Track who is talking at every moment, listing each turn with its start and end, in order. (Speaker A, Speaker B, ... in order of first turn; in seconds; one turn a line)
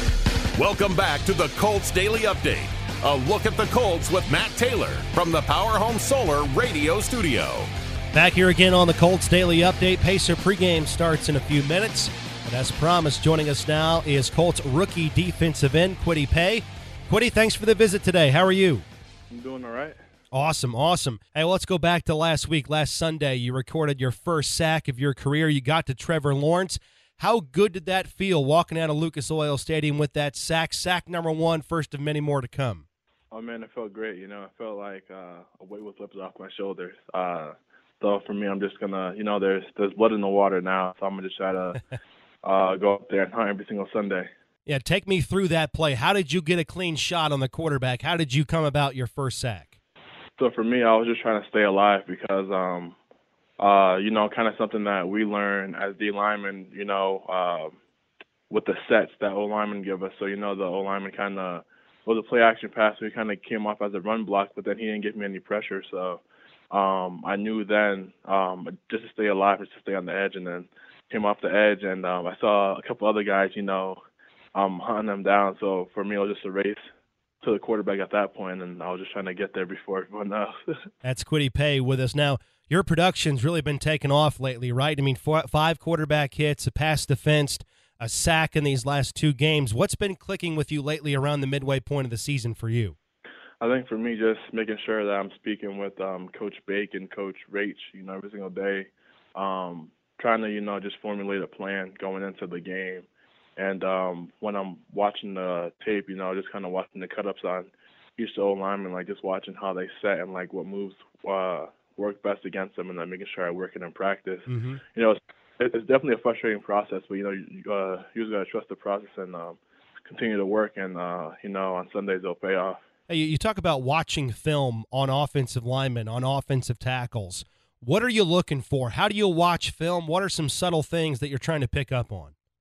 Speaker A: 0.6-7.7
Speaker B: 8.1-18.8
Speaker C: 19.3-20.0
Speaker B: 20.3-32.9
Speaker C: 33.3-41.8
Speaker C: 42.4-44.3
Speaker B: 44.7-49.8
Speaker C: 50.4-53.0
Speaker C: 53.6-57.8
Speaker C: 58.5-74.0
Speaker C: 74.5-76.8
Speaker C: 77.4-80.8
Speaker B: 81.0-93.0
Speaker C: 93.6-103.1
Speaker C: 103.6-122.8
Speaker B: 114.5-114.8
Speaker B: 123.1-132.3